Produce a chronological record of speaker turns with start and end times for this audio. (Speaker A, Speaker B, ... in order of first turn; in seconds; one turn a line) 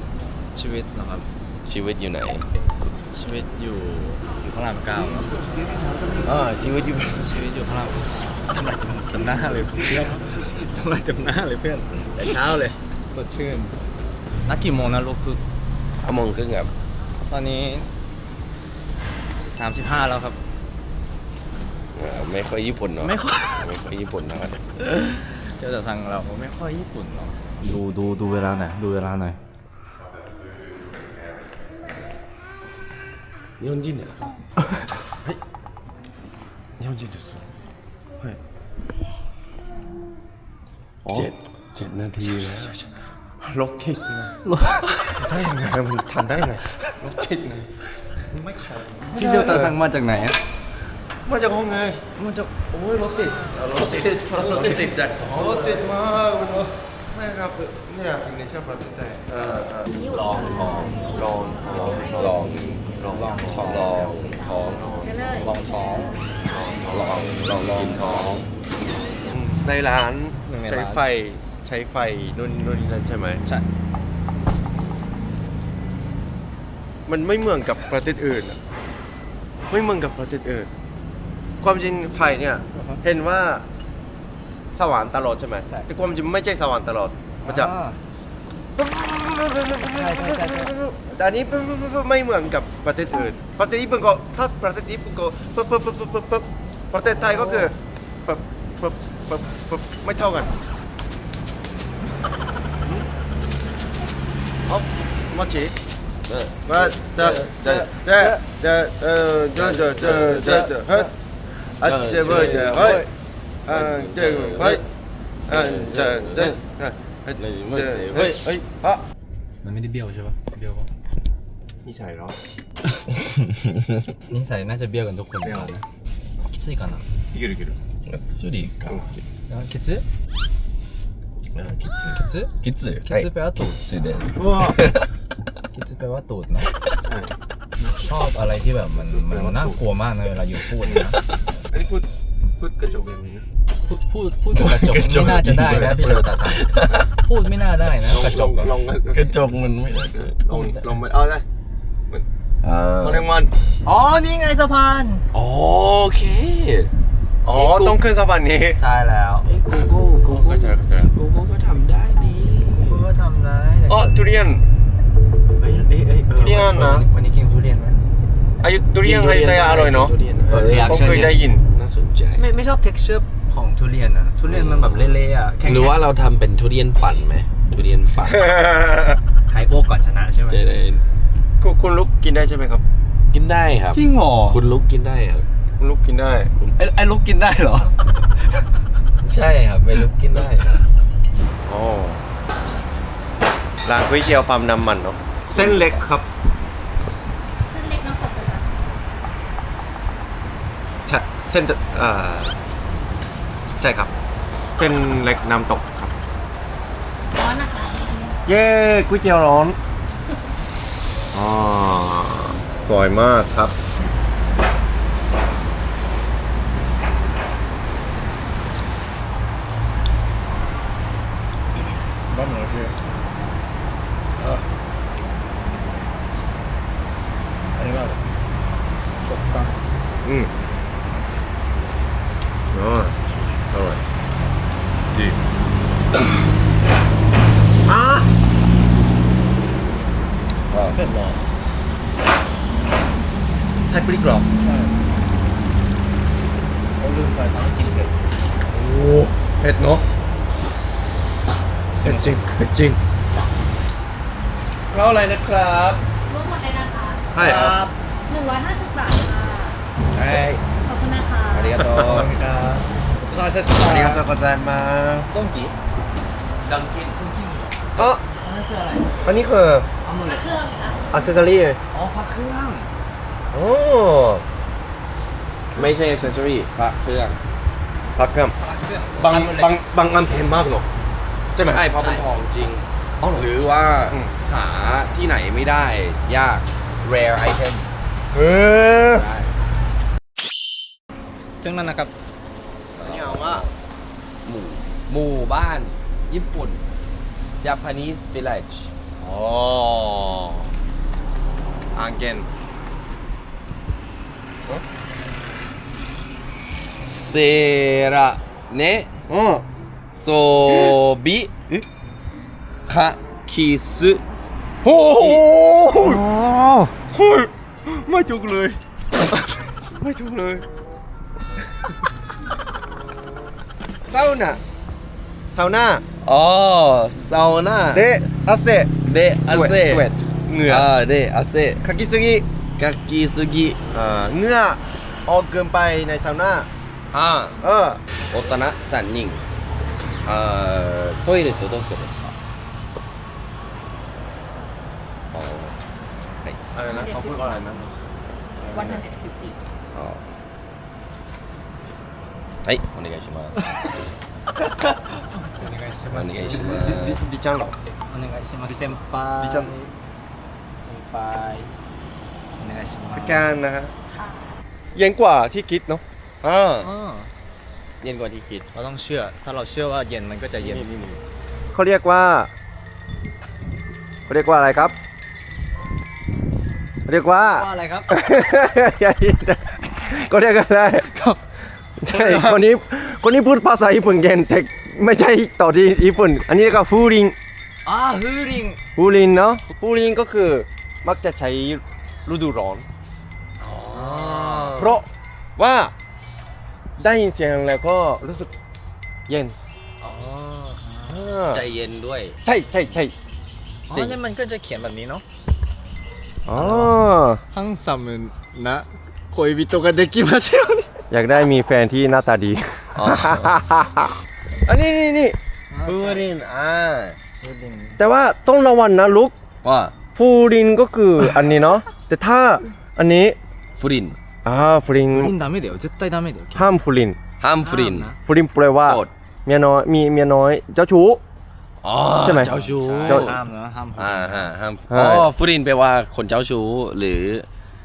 Speaker A: 0.5-1.3
Speaker B: 1.6-2.5
Speaker A: 3.1-5.5
Speaker B: 6.2-7.3
Speaker A: 7.2-13.7
Speaker A: 14.5-15.4
Speaker B: 16.0-16.7
Speaker A: 17.3-17.9
Speaker A: 19.4-20.4
Speaker B: 21.9-24.6
Speaker A: 23.0-23.7
Speaker A: 24.8-29.4
Speaker B: 33.6-34.3
Speaker C: 36.8-37.5
Speaker C: 41.0-41.3
Speaker B: 41.1-42.7
Speaker C: 42.2-49.7
Speaker A: 44.4-44.8
Speaker A: 49.1-50.4
Speaker C: 51.2-62.4
Speaker B: 53.6-55.7
Speaker B: 59.3-61.0
Speaker D: 59.9-61.2
Speaker B: 61.8-63.0
Speaker C: 62.9-64.1
Speaker A: 63.1-63.9
Speaker B: 63.6-65.5
Speaker D: 65.0-65.5
Speaker A: 65.4-66.2
Speaker C: 66.5-68.2
Speaker B: 66.8-68.5
Speaker C: 69.3-73.4
Speaker A: 70.5-71.0
Speaker C: 77.0-78.6
Speaker C: 79.7-80.7
Speaker C: 81.6-83.6
Speaker A: 82.7-83.0
Speaker C: 84.7-87.7
Speaker A: 87.5-88.0
Speaker C: 88.8-100.5
Speaker A: 89.9-90.7
Speaker A: 97.3-97.7
Speaker C: 104.7-105.7
Speaker B: 106.3-107.9
Speaker C: 106.7-111.1
Speaker A: 107.6-108.3
Speaker B: 109.5-111.0
Speaker A: 110.3-110.7
Speaker C: 111.8-113.1
Speaker B: 111.8-113.1
Speaker C: 113.7-114.8
Speaker B: 113.7-114.8
Speaker B: 115.5-116.6
Speaker C: 115.5-119.0
Speaker B: 117.4-118.4
Speaker A: 119.6-120.9
Speaker C: 121.8-122.4
Speaker A: 124.3-125.8
Speaker A: 126.5-127.0
Speaker C: 127.3-127.7
Speaker B: 128.1-129.2
Speaker A: 129.5-130.0
Speaker B: 131.5-135.1
Speaker A: 132.0-132.5
Speaker A: 133.1-134.8
Speaker A: 135.7-136.7
Speaker A: 137.8-141.2
Speaker C: 139.3-139.7
Speaker C: 141.7-142.1
Speaker C: 142.6-143.4
Speaker A: 143.8-148.7
Speaker B: 144.5-147.1
Speaker C: 145.4-145.8
Speaker B: 148.0-150.4
Speaker C: 148.1-149.4
Speaker C: 150.1-151.4
Speaker B: 152.6-153.3
Speaker C: 153.0-153.5
Speaker A: 153.8-155.2
Speaker B: 155.3-156.9
Speaker C: 157.4-158.8
Speaker B: 157.5-158.0
Speaker A: 158.8-159.5
Speaker B: 159.4-163.0
Speaker C: 159.7-161.0
Speaker A: 162.7-164.1
Speaker C: 163.9-164.6
Speaker A: 165.6-168.0
Speaker C: 166.3-167.0
Speaker C: 168.6-171.6
Speaker B: 169.0-172.5
Speaker A: 170.5-171.4
Speaker A: 172.4-175.9
Speaker B: 174.4-178.5
Speaker C: 178.2-179.2
Speaker A: 179.5-180.6
Speaker B: 180.5-181.0
Speaker C: 181.6-182.8
Speaker B: 183.3-185.4
Speaker A: 183.9-184.6
Speaker C: 185.8-186.5
Speaker A: 186.8-187.9
Speaker B: 189.2-190.7
Speaker C: 191.7-192.2
Speaker C: 193.8-196.3
Speaker B: 195.5-195.8
Speaker D: 197.7-198.7
Speaker C: 201.1-202.6
Speaker C: 203.8-204.1
Speaker C: 204.8-206.1
Speaker D: 207.3-208.4
Speaker C: 208.4-209.8
Speaker C: 211.3-213.7
Speaker A: 222.3-222.9
Speaker A: 227.8-228.2
Speaker A: 229.2-229.7
Speaker C: 230.2-230.5
Speaker C: 232.7-233.2
Speaker C: 233.7-234.0
Speaker C: 237.9-238.3
Speaker B: 240.7-241.0
Speaker A: 240.9-241.4
Speaker C: 243.8-244.5
Speaker A: 247.0-248.1
Speaker C: 248.7-250.0
Speaker A: 252.0-252.5
Speaker C: 252.0-253.0
Speaker B: 254.9-256.0
Speaker D: 256.3-257.2
Speaker C: 257.3-257.7
Speaker A: 257.4-257.9
Speaker B: 257.5-257.7
Speaker D: 258.3-259.8
Speaker A: 260.1-260.6
Speaker D: 260.8-261.8
Speaker B: 261.5-262.3
Speaker C: 261.8-262.3
Speaker A: 261.9-264.3
Speaker C: 263.8-265.3
Speaker A: 265.3-265.7
Speaker B: 266.6-267.2
Speaker A: 267.1-269.1
Speaker C: 267.9-268.2
Speaker C: 269.2-269.9
Speaker A: 270.0-270.5
Speaker D: 270.2-271.2
Speaker C: 271.1-271.8
Speaker A: 271.9-272.9
Speaker C: 273.5-274.4
Speaker B: 275.7-277.4
Speaker C: 278.1-278.5
Speaker A: 278.6-279.8
Speaker C: 279.2-280.9
Speaker C: 281.6-281.9
Speaker B: 281.6-287.9
Speaker A: 281.9-282.2
Speaker C: 283.2-283.5
Speaker C: 288.3-289.3
Speaker B: 289.0-289.5
Speaker A: 291.6-292.1
Speaker B: 293.0-293.7
Speaker C: 293.0-293.6
Speaker B: 294.4-296.8
Speaker B: 297.6-298.9
Speaker C: 299.2-300.7
Speaker C: 301.9-302.5
Speaker B: 307.0-309.1
Speaker C: 309.3-309.6
Speaker B: 310.2-311.7
Speaker C: 310.7-311.0
Speaker B: 312.9-314.2
Speaker C: 314.8-316.2
Speaker B: 314.9-315.4
Speaker A: 315.9-316.9
Speaker C: 317.1-318.8
Speaker C: 320.0-320.6
Speaker C: 324.1-324.6
Speaker C: 325.5-326.0
Speaker B: 326.2-328.1
Speaker C: 327.9-330.9
Speaker B: 329.0-330.1
Speaker B: 330.6-331.8
Speaker C: 331.8-332.4
Speaker B: 332.8-333.8
Speaker C: 333.9-336.7
Speaker B: 337.1-337.6
Speaker C: 337.6-338.0
Speaker B: 338.3-339.4
Speaker B: 340.2-342.3
Speaker B: 345.3-345.8
Speaker C: 346.7-347.8
Speaker D: 346.9-347.9
Speaker C: 348.6-349.1
Speaker D: 348.7-349.6
Speaker B: 349.9-350.2
Speaker B: 352.6-353.9
Speaker A: 354.6-357.0
Speaker B: 356.1-357.2
Speaker C: 356.4-357.7
Speaker A: 358.1-359.9
Speaker C: 358.7-359.7
Speaker A: 360.8-361.7
Speaker A: 362.6-363.5
Speaker C: 363.1-363.9
Speaker C: 364.9-366.9
Speaker A: 366.8-367.3
Speaker B: 368.0-368.7
Speaker A: 368.7-371.0
Speaker C: 370.6-371.1
Speaker C: 371.7-372.5
Speaker C: 374.3-374.9
Speaker C: 377.1-381.1
Speaker A: 377.4-378.1
Speaker C: 382.0-387.4
Speaker A: 382.1-382.6
Speaker A: 387.9-388.8
Speaker C: 388.9-392.9
Speaker B: 393.6-395.0
Speaker C: 393.9-395.1
Speaker A: 394.2-394.8
Speaker C: 395.6-395.9
Speaker C: 397.0-398.5
Speaker C: 399.3-399.6
Speaker B: 400.0-400.8
Speaker A: 400.8-401.1
Speaker C: 401.1-401.6
Speaker B: 401.5-402.4
Speaker C: 402.4-403.1
Speaker A: 403.9-405.2
Speaker C: 406.4-407.4
Speaker A: 406.5-406.9
Speaker A: 407.5-410.9
Speaker C: 411.1-415.4
Speaker B: 412.9-413.6
Speaker A: 415.7-416.3
Speaker B: 415.8-417.2
Speaker A: 417.4-418.0
Speaker C: 418.0-419.3
Speaker B: 419.6-419.9
Speaker C: 420.1-423.4
Speaker B: 423.8-424.1
Speaker C: 424.4-425.3
Speaker A: 425.1-426.7
Speaker C: 426.5-427.2
Speaker B: 427.4-428.1
Speaker A: 427.6-428.1
Speaker C: 428.2-431.2
Speaker B: 428.9-429.1
Speaker B: 431.8-433.4
Speaker C: 432.2-432.5
Speaker A: 432.3-434.5
Speaker C: 433.0-433.3
Speaker B: 433.9-437.4
Speaker C: 434.9-435.3